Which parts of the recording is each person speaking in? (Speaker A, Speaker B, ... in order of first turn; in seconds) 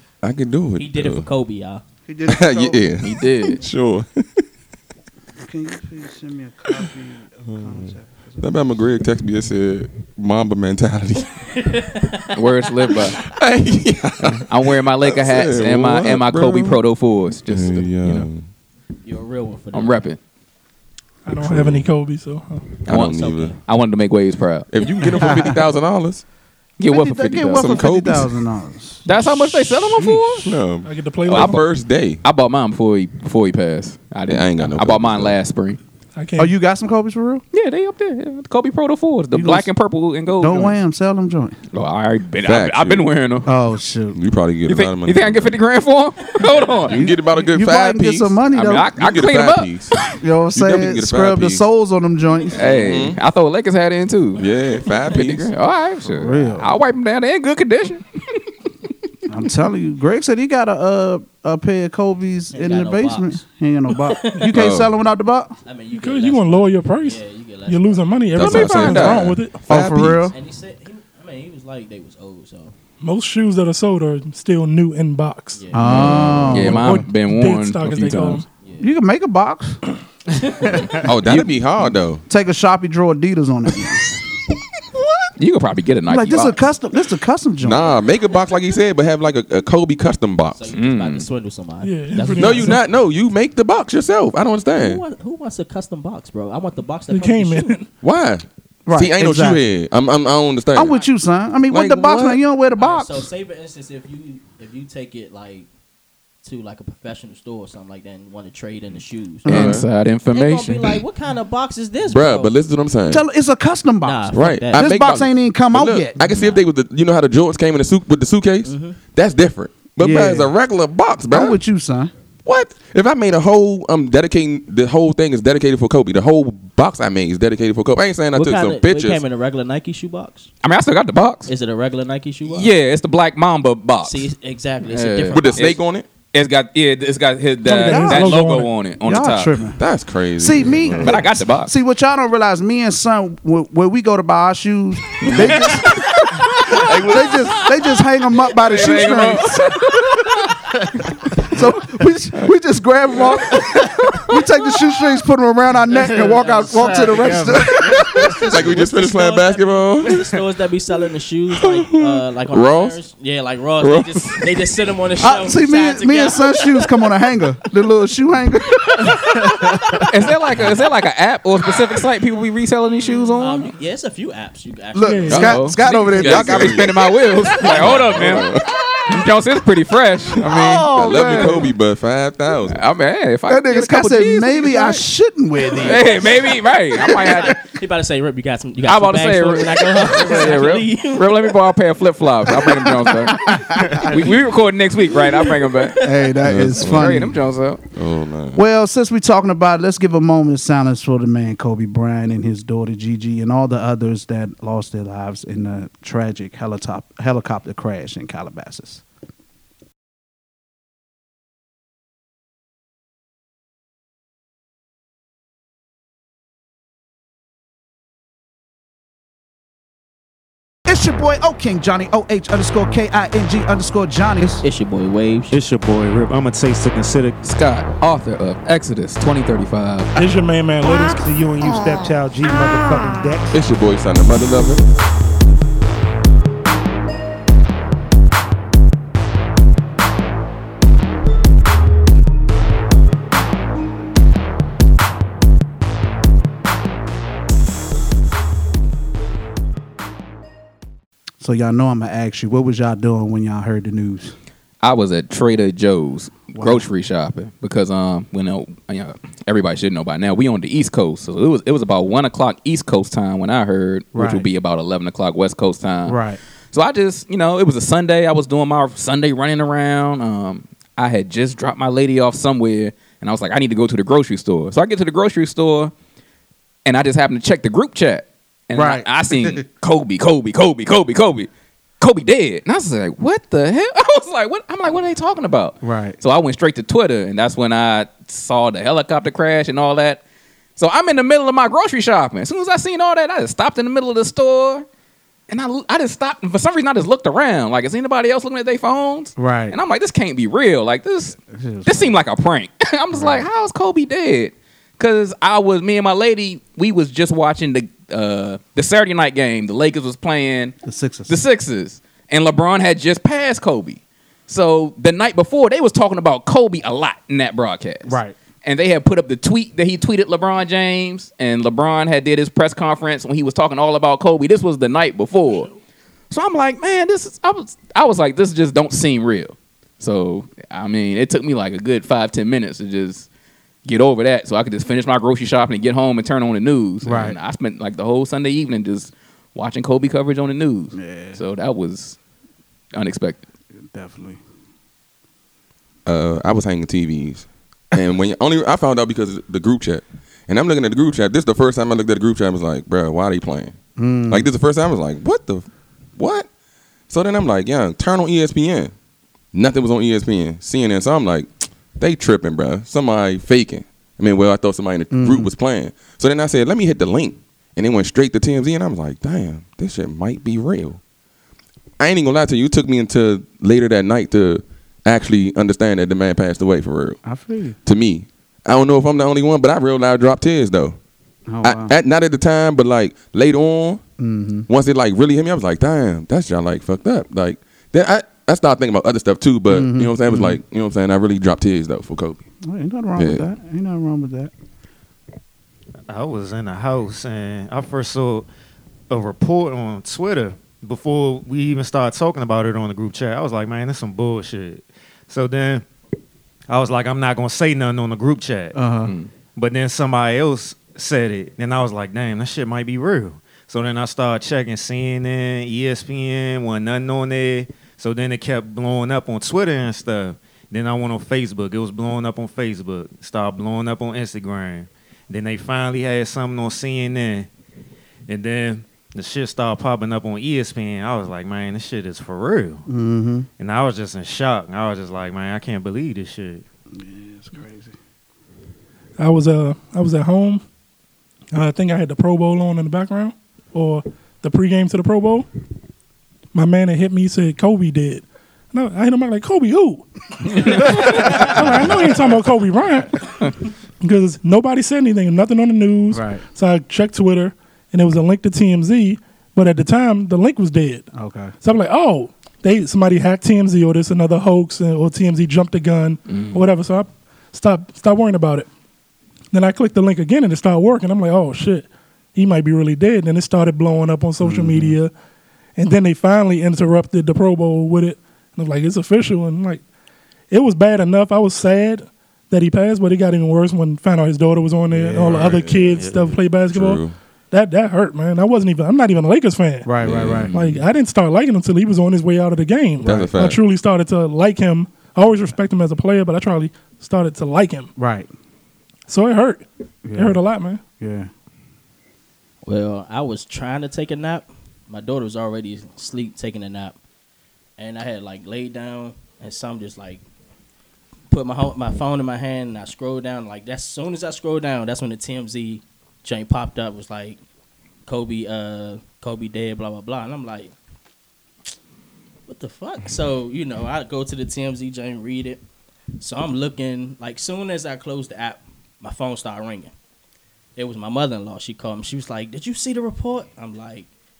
Speaker A: 0.2-1.3, 2.3-4.4, 7.5-11.5, 13.1-16.8, 17.5-18.5, 21.4-21.9, 22.8-23.6, 24.7-26.2, 27.5-28.3, 29.9-32.2, 34.3-35.4, 42.4-43.1, 44.1-45.5, 46.9-51.6, 52.7-53.2, 54.4-55.5, 64.5-64.9, 68.3-70.3, 75.8-76.6, 81.0-82.2, 87.6-90.7, 92.4-95.0, 98.0-100.9, 101.7-102.4, 109.5-109.8, 112.1-113.2, 114.3-121.6, 122.5-129.2, 135.3-136.1, 139.8-141.2, 158.5-160.2, 161.5-163.0, 163.8-164.6, 175.9-176.9, 177.5-178.8, 180.9-182.8, 196.4-197.4, 197.9-198.6, 233.5-234.9, 346.1-353.8, 354.3-355.6, 356.2-356.5, 357.1-358.9, 359.5-371.0, 372.0-377.2, 377.8-380.9, 381.6-384.0, 384.7-392.4, 393.2-393.4, 485.2-486.1, 486.7-487.1, 490.0-490.7, 493.0-493.6
Speaker B: 0.8-1.8, 11.4-12.4, 19.1-20.0, 23.1-23.6, 46.5-46.9, 62.5-63.4, 63.9-64.5, 65.6-68.1, 70.3-72.7, 75.5-76.4, 78.6-78.9, 80.3-81.1, 86.3-86.6, 90.5-92.8, 94.7-97.8, 100.9-101.1, 102.8-105.7, 106.4-109.5, 110.3-112.5, 114.0-115.0, 116.3-116.6, 118.6-119.0, 128.3-130.5, 131.5-132.7, 134.0-135.8, 145.3-147.2, 153.5-154.3, 155.9-166.9, 168.9-169.9, 173.4-175.6, 177.6-178.1, 185.8-191.6, 193.9-194.3, 195.1-196.3, 224.6-225.6, 502.6-506.9, 507.8-510.2, 511.3-517.4, 518.1-520.7, 522.5-525.6, 526.2-529.9, 530.8-534.1
Speaker C: 2.1-2.8, 5.4-8.5, 25.2-25.6, 26.9-29.5, 36.4-37.4, 39.3-39.7, 40.4-41.6, 43.5-44.2, 46.9-48.9, 50.1-52.8, 56.1-56.8, 59.3-65.6, 68.5-70.3, 75.7-76.9, 78.8-79.8, 82.3-84.2, 86.1-88.0, 98.8-99.6, 100.7-103.3, 109.4-109.8, 113.1-116.2, 120.0-120.5, 121.2-122.1, 137.9-138.4, 139.0-139.8, 140.4-150.5, 151.1-158.5, 165.2-170.1, 173.1-173.4, 174.9-177.1, 180.4-181.7, 183.5-186.3, 192.6-194.3, 196.0-197.4, 198.5-209.0, 220.9-224.6, 251.4-254.3, 256.5-256.9, 264.1-264.4, 266.1-266.4, 278.7-279.6, 285.8-286.2, 299.4-299.8, 301.5-302.1, 303.1-303.5, 310.8-311.4, 318.0-318.4, 337.0-337.4, 340.9-341.4, 343.8-344.4, 354.0-354.5, 365.1-365.5, 377.2-377.8, 381.5-381.9, 384.2-384.7, 389.7-390.6, 392.6-394.5, 408.7-409.1, 432.9-433.5, 436.9-437.9, 450.9-452.0, 456.1-456.4, 461.1-461.5, 474.4-475.0, 484.9-485.4, 489.8-490.6, 493.0-493.3, 498.0-498.3, 500.1-500.4, 501.0-501.3
Speaker D: 3.0-3.6, 12.3-13.2, 14.4-18.3, 19.7-20.2, 22.9-24.7, 26.8-27.9, 29.1-30.6, 31.3-31.6, 32.2-35.8, 37.5-40.8, 41.7-43.5, 44.7-47.0, 48.5-49.7, 52.5-54.4, 55.1-58.5, 68.4-69.1, 76.5-78.4, 81.2-81.5, 85.4-86.6, 90.7-91.3, 109.5-110.9, 130.6-131.5, 132.5-134.2, 134.8-135.8, 136.3-139.6, 140.9-141.7, 145.3-147.5, 148.4-150.1, 170.0-173.7, 175.3-178.5, 179.1-181.6, 182.7-185.0, 185.8-187.6, 188.8-196.0, 196.8-197.8, 227.4-230.2, 254.8-266.2, 266.7-275.9, 276.8-281.5, 282.0-290.2, 290.8-294.9, 295.5-310.8, 311.3-325.7, 326.3-333.3, 333.8-342.2, 342.9-343.4, 466.3-466.6
Speaker E: 21.2-22.7, 30.8-31.6, 36.2-36.5, 65.9-69.7, 73.0-78.4, 91.8-92.8, 97.1-97.9, 137.7-138.7, 175.0-175.7, 230.2-233.6, 439.2-440.6, 441.5-445.5, 446.5-461.1, 461.6-468.7, 469.5-475.1, 475.8-479.8, 480.5-497.9, 499.1-500.8
Speaker F: 156.8-157.8, 225.5-227.4, 396.1-398.5, 399.1-405.8, 406.7-408.8, 409.5-427.5, 428.3-432.9, 433.6-436.6, 485.4-486.5